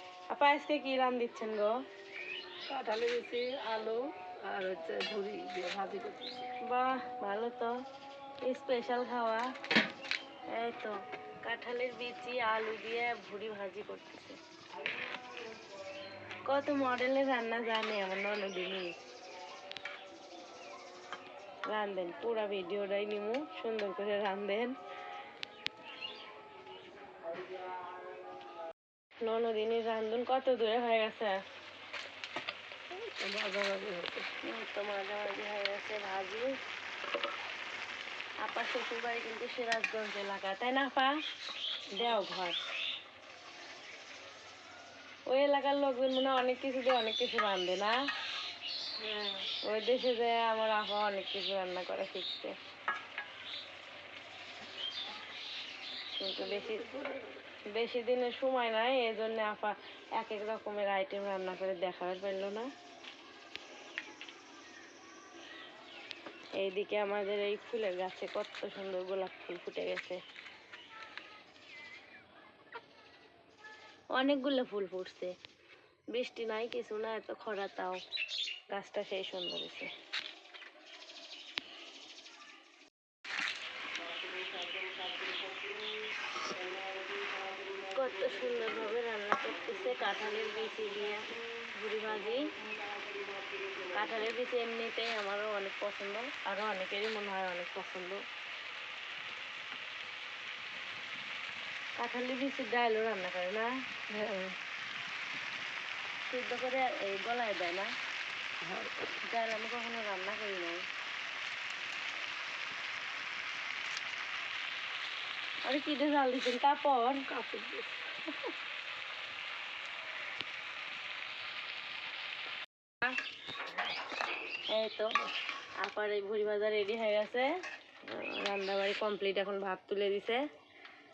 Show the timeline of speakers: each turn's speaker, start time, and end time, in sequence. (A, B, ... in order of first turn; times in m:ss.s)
0:00.3-0:01.8 A
0:02.7-0:06.5 B
0:06.6-0:07.8 A
0:08.4-0:09.5 A
0:10.5-0:14.4 A
0:16.4-0:19.0 A
0:21.7-0:24.8 A
0:29.2-0:31.4 A
0:32.9-0:34.3 B
0:34.4-0:36.5 A
0:38.4-0:41.2 A
0:41.9-0:42.6 A
0:45.3-0:47.9 A
0:49.0-0:49.4 B
0:49.4-0:52.6 A
0:56.2-0:56.9 A
0:56.6-0:57.3 B
0:57.7-1:02.7 A
1:06.6-1:10.2 A
1:14.1-1:15.4 A
1:16.1-1:18.0 A
1:18.7-1:19.9 A
1:27.8-1:32.4 A
1:33.8-1:38.2 A
1:42.0-1:43.7 A
1:44.1-1:44.6 B
1:46.3-1:47.9 A
1:48.6-1:49.1 B
1:49.2-1:50.8 A
1:55.6-1:57.3 A
1:57.3-1:58.1 B
2:04.7-2:05.1 A
2:05.8-2:07.5 A
2:08.0-2:10.4 A